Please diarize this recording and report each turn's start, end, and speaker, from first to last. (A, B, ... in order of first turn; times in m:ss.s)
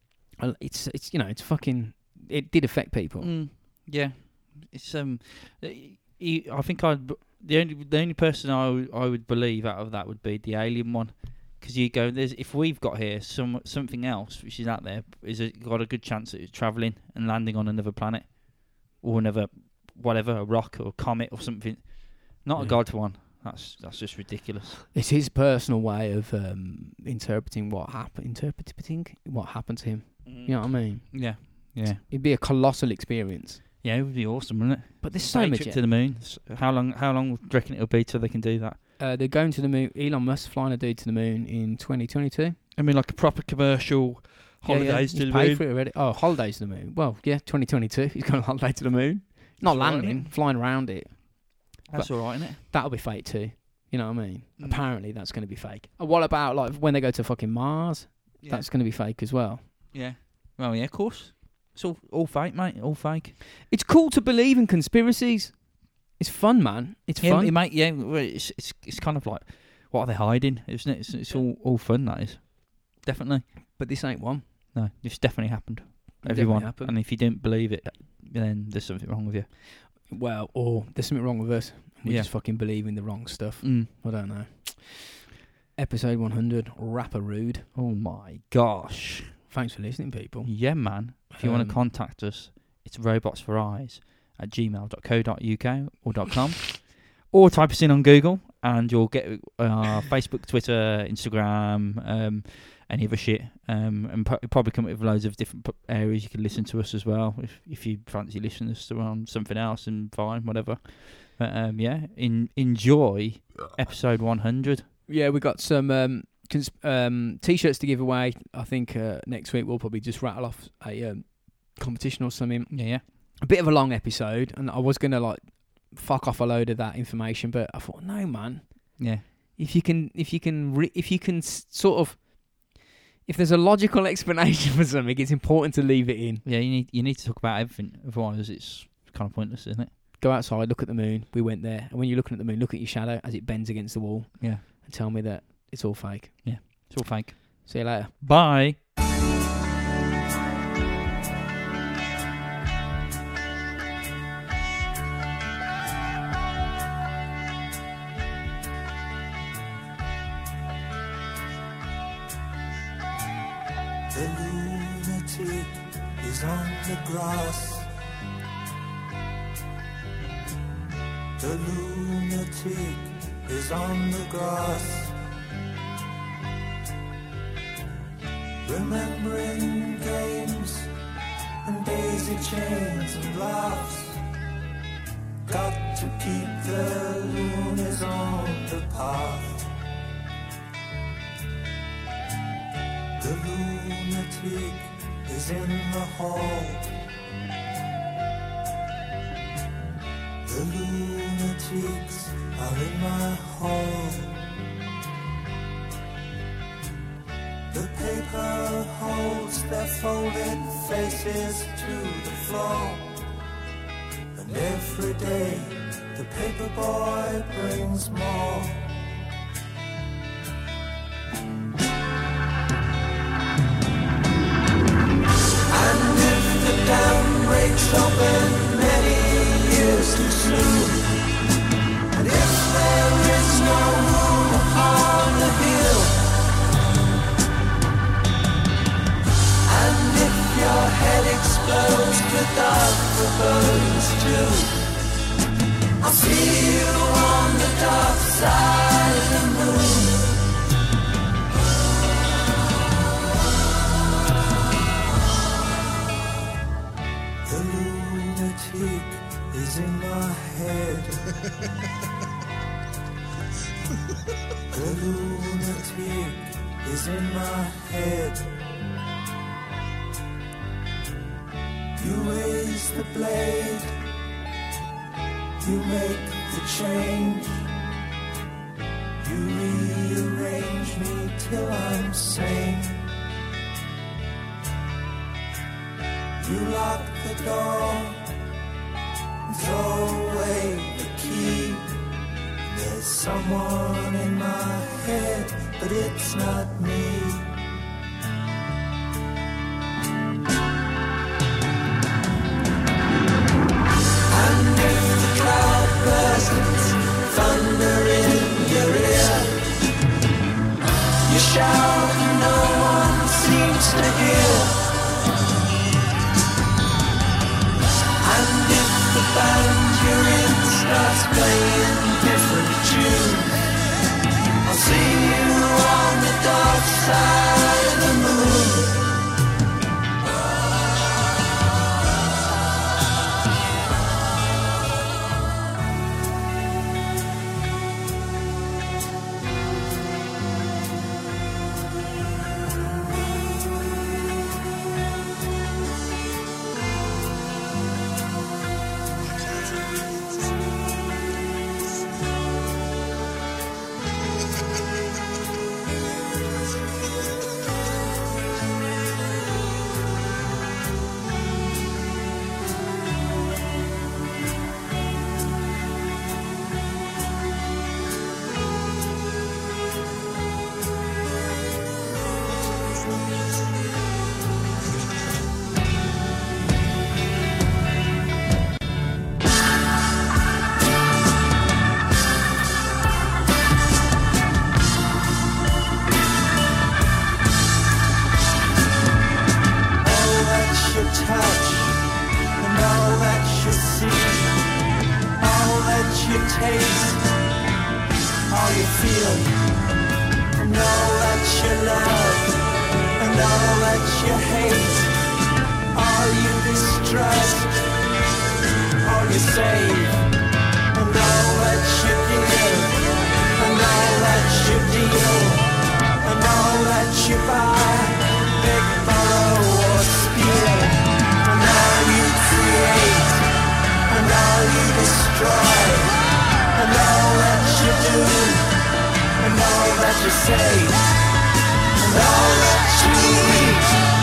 0:00.4-0:03.3 A
0:03.2-0:24.8 B
0:24.9-0:33.6 A
0:30.2-0:32.0 B
0:33.8-0:38.8 B
0:35.0-0:35.8 A
0:39.0-0:42.6 A
0:42.8-0:45.6 B
0:44.6-0:59.7 A
0:49.6-0:50.3 B
0:51.9-0:52.6 B
0:58.4-0:58.7 B
0:59.9-1:03.4 B
1:03.7-1:07.5 A
1:07.2-1:13.5 B
1:13.7-1:14.5 A
1:14.7-1:19.5 B
1:16.2-1:17.0 A
1:20.0-1:27.7 A
1:22.0-1:22.3 B
1:23.6-1:23.9 B
1:27.7-1:29.4 B
1:29.5-1:30.8 A
1:30.4-1:54.9 B
1:31.3-1:31.8 A
1:55.1-2:16.4 A
2:02.7-2:03.0 B
2:09.0-2:09.2 B
2:16.4-2:19.9 B
2:20.2-2:26.9 A
2:26.4-2:28.8 B
2:27.6-2:28.1 A
2:44.1-2:47.9 C
2:51.4-2:55.1 C
2:58.6-3:00.9 C
3:01.6-3:04.2 C
3:05.4-3:09.7 C
3:13.2-3:16.9 C
3:20.4-3:24.3 C
3:27.7-3:33.2 C
3:34.3-3:39.0 C
3:45.7-3:51.2 C
3:52.1-3:56.2 C
3:59.7-4:04.8 C
4:06.0-4:10.4 C
4:17.4-4:21.3 C
4:24.7-4:28.5 C
4:32.0-4:34.0 C
4:35.6-4:37.7 C
4:39.2-4:43.0 C
4:46.4-4:48.3 C
4:49.4-4:51.9 C
4:52.6-4:57.5 C
5:04.3-5:09.6 C
5:11.2-5:14.8 C
5:18.2-5:23.5 C
5:24.6-5:29.0 C
6:30.0-6:32.0 C
6:32.6-6:34.5 C
6:35.4-6:37.3 C
6:38.5-6:39.5 C
6:40.5-6:42.5 C
6:43.2-6:45.1 C
6:45.9-6:47.8 C
6:49.0-6:50.2 C
6:50.9-6:53.0 C
6:53.6-6:55.6 C
6:56.2-7:03.4 C
7:04.1-7:06.1 C
7:06.7-7:08.7 C
7:09.4-7:11.0 C
7:12.0-7:14.0 C